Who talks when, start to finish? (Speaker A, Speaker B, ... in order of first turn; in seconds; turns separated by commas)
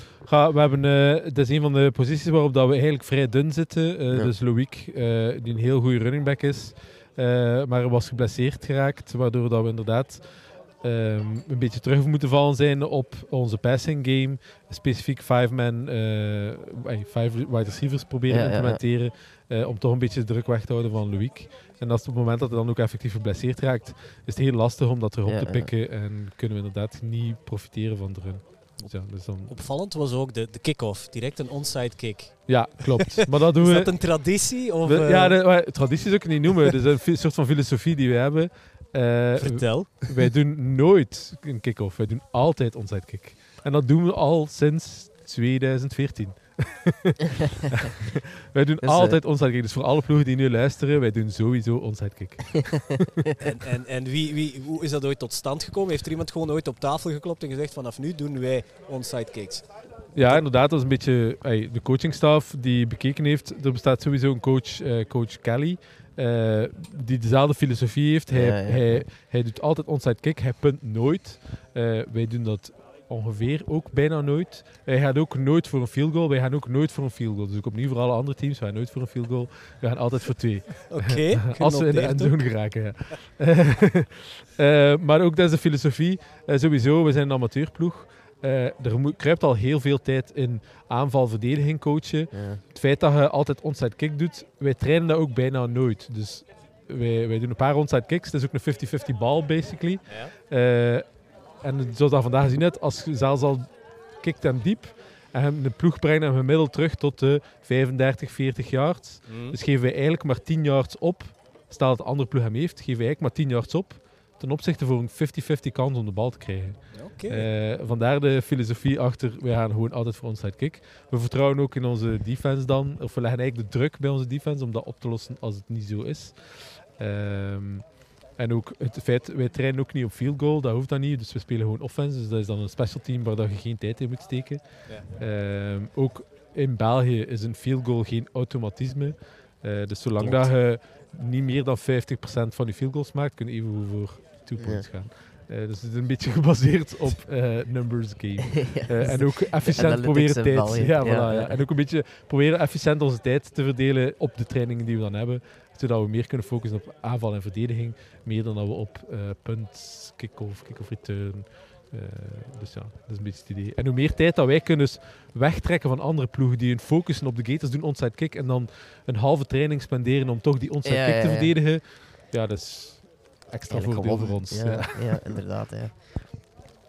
Speaker A: 0.2-29.5, Speaker B: 18.3-18.8, Speaker B: 25.2-25.7, Speaker C: 28.8-35.6, Speaker A: 32.5-53.1, Speaker C: 39.4-40.2, Speaker B: 48.8-49.2, Speaker C: 53.4-60.4, Speaker A: 60.1-175.4, Speaker B: 68.3-69.0, Speaker C: 80.9-82.7, Speaker B: 92.3-92.6, Speaker C: 100.1-100.3, Speaker C: 109.2-109.6, Speaker C: 116.9-117.5, Speaker B: 140.2-140.5, Speaker B: 144.6-144.8, Speaker B: 148.6-151.6, Speaker B: 170.8-171.5, Speaker B: 173.7-176.6